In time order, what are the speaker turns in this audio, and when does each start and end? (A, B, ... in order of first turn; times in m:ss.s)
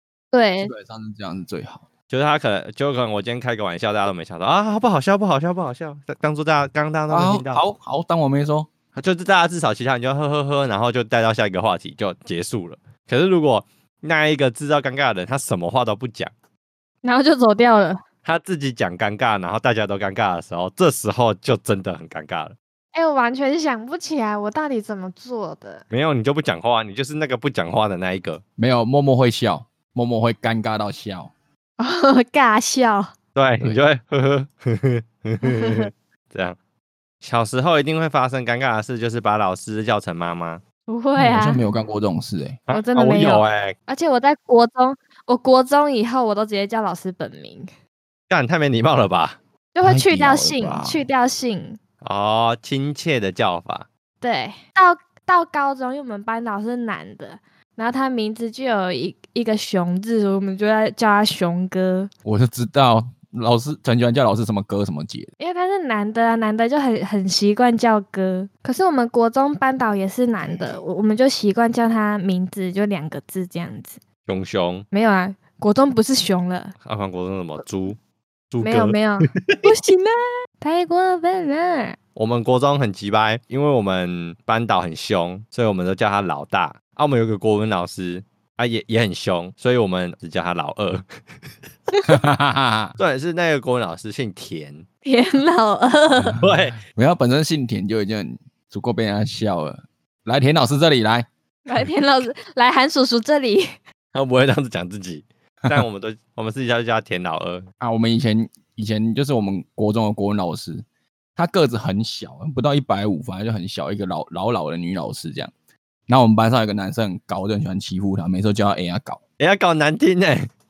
0:00.3-0:00.7 A
0:00.6-0:01.8 B
0:02.1-0:07.6 C
0:07.1-0:08.7 B
0:08.9-0:16.3 C
0:17.0-0:18.0 A
0:18.2-0:22.6 C
0:22.9-0:25.8 A
0:25.9-0:28.4 C
0:28.6-0:31.3 B
0:31.8-0:33.1 A
0:33.3-0:36.6 C
0:35.4-0:35.9 A
0:37.2-0:40.6 C
0:40.9-0:41.6 A
0:41.2-0:42.6 B
0:42.7-0:43.7 C
0:42.7-0:47.7 A
0:48.3-0:49.4 C
0:49.7-0:51.8 A
0:49.8-0:51.0 B
0:52.0-0:53.9 C
0:54.2-1:02.1 A
1:02.2-1:05.3 B
1:05.4-1:14.0 A
1:14.2-1:14.8 C
1:14.9-1:16.7 A
1:16.8-1:18.0 C
1:18.5-1:19.6 C
1:18.6-1:22.0 A
1:22.2-1:31.0 C
1:32.0-1:32.9 B
1:33.0-1:34.8 C
1:35.0-1:36.4 A
1:36.2-1:41.3 B
1:36.4-1:36.8 C
1:41.6-1:43.7 A
1:44.1-1:47.6 C
1:47.8-1:50.8 B
1:51.4-1:55.5 B
1:56.1-1:59.2 B
1:59.4-2:00.5 C